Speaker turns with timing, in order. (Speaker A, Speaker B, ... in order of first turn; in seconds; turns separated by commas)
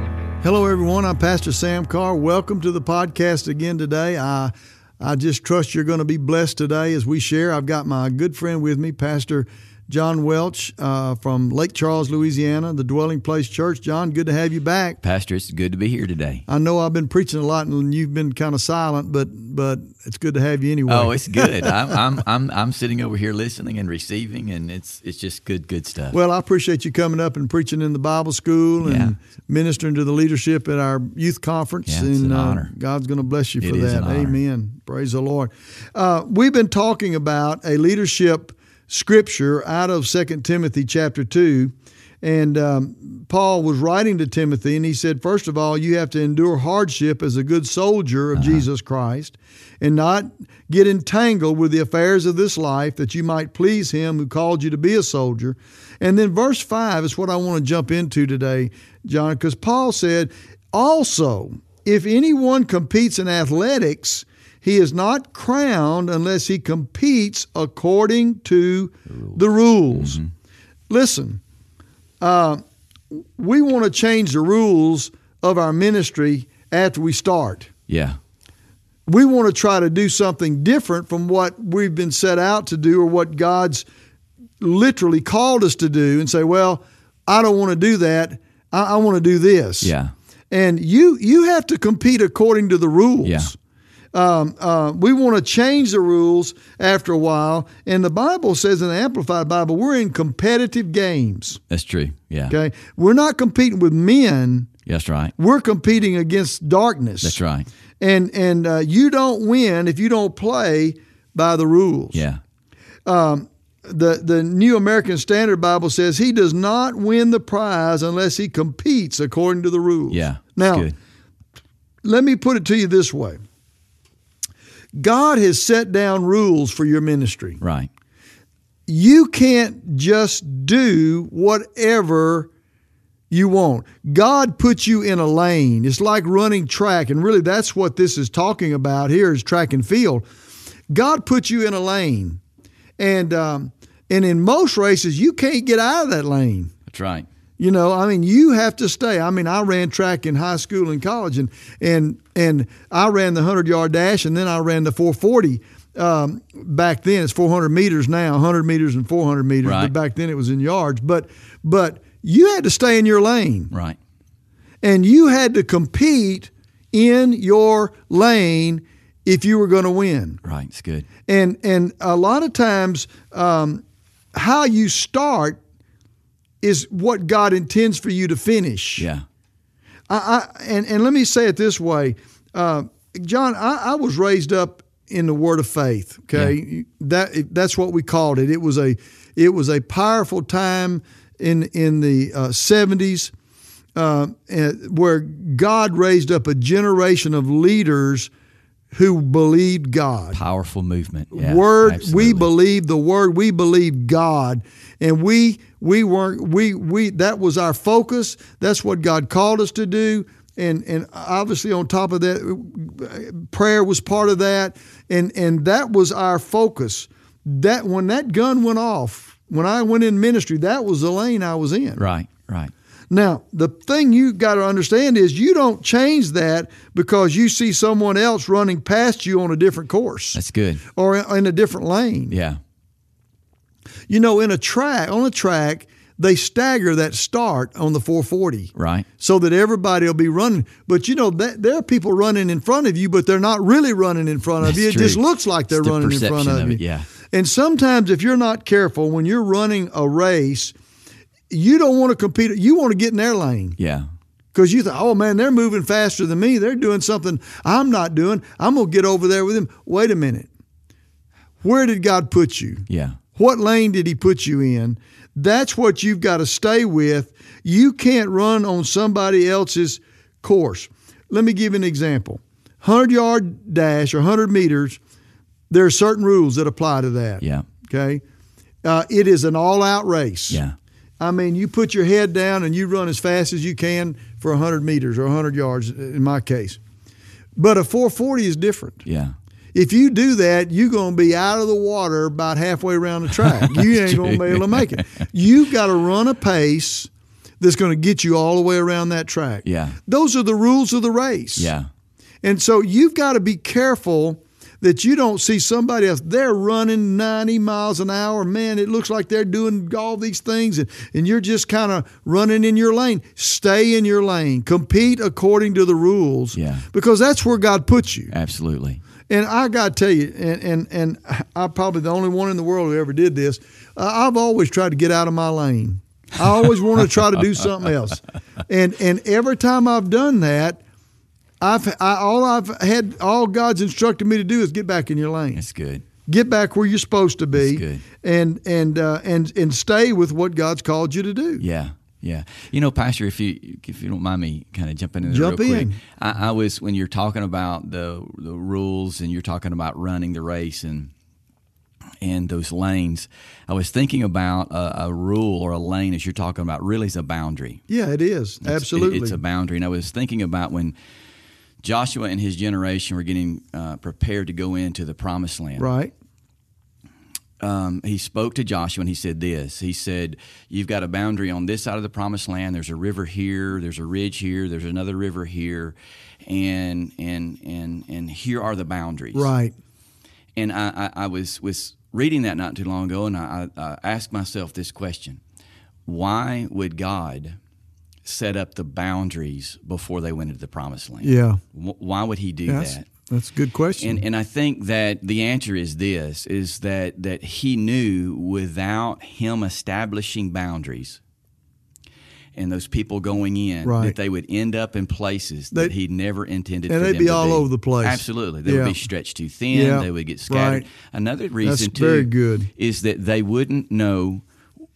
Speaker A: 0.4-15.0, Speaker B: 15.0-16.4, Speaker A: 16.5-21.8, Speaker B: 20.9-26.2, Speaker A: 26.1-70.2, Speaker B: 28.8-29.1, Speaker B: 31.8-32.7, Speaker B: 33.6-34.4, Speaker B: 48.3-48.7, Speaker B: 69.1-69.4, Speaker B: 69.9-70.3, Speaker A: 70.9-71.4, Speaker A: 72.2-72.6, Speaker A: 73.1-77.7, Speaker B: 77.9-78.2, Speaker A: 79.1-83.8, Speaker A: 84.6-89.9, Speaker B: 89.8-90.1, Speaker A: 90.5-93.5, Speaker B: 93.2-93.5, Speaker A: 94.1-101.6, Speaker B: 101.7-102.6, Speaker A: 102.5-104.7, Speaker B: 104.8-105.3, Speaker A: 105.4-107.4, Speaker B: 107.2-107.7, Speaker A: 108.0-112.2, Speaker B: 112.1-112.4, Speaker A: 113.0-120.9, Speaker B: 120.1-120.9, Speaker A: 122.0-123.4, Speaker A: 125.0-127.6, Speaker B: 127.6-127.9, Speaker A: 128.9-132.5, Speaker A: 133.3-140.2, Speaker A: 140.9-142.4, Speaker A: 143.0-146.7, Speaker B: 146.8-147.3, Speaker A: 147.6-163.7, Speaker B: 159.6-159.9, Speaker B: 163.7-164.0, Speaker A: 164.8-170.4, Speaker B: 170.4-171.1, Speaker A: 171.2-173.8, Speaker A: 174.3-175.6, Speaker A: 176.6-179.1, Speaker B: 179.0-179.2, Speaker A: 180.1-193.3, Speaker A: 193.9-198.3, Speaker A: 198.9-200.4, Speaker B: 200.3-202.5, Speaker A: 201.3-222.1, Speaker B: 221.9-222.7, Speaker A: 223.1-230.4, Speaker B: 230.3-230.8, Speaker A: 230.9-232.4, Speaker B: 232.3-232.6, Speaker A: 234.1-250.7, Speaker B: 238.7-239.1, Speaker B: 244.6-247.1, Speaker A: 251.5-253.8, Speaker B: 253.8-254.1, Speaker A: 254.5-260.5, Speaker A: 261.6-275.0, Speaker B: 262.9-263.2, Speaker A: 275.7-278.2, Speaker B: 277.4-277.7, Speaker A: 278.8-280.6, Speaker B: 280.5-280.7, Speaker A: 281.2-286.8, Speaker A: 287.6-289.0, Speaker B: 289.0-289.3, Speaker A: 289.7-301.7, Speaker B: 293.4-295.0, Speaker B: 299.6-300.0, Speaker B: 301.6-301.9, Speaker A: 302.4-318.3, Speaker B: 316.5-316.9, Speaker B: 318.3-319.0, Speaker A: 319.3-330.8, Speaker A: 331.6-335.6, Speaker B: 335.5-336.1, Speaker A: 336.3-341.6, Speaker B: 337.5-338.0, Speaker B: 341.6-351.1, Speaker A: 345.2-346.0, Speaker B: 352.2-357.8, Speaker A: 357.9-359.4, Speaker B: 358.6-360.9, Speaker B: 361.8-365.9, Speaker A: 365.8-366.1, Speaker B: 367.6-379.5, Speaker A: 379.3-379.7, Speaker B: 380.6-385.4, Speaker B: 386.1-387.6, Speaker B: 388.2-393.1, Speaker A: 391.2-391.6, Speaker A: 392.7-394.2, Speaker B: 393.9-401.2, Speaker B: 402.6-414.4, Speaker A: 403.8-404.2, Speaker A: 406.9-409.0, Speaker A: 409.7-410.9, Speaker A: 411.6-412.7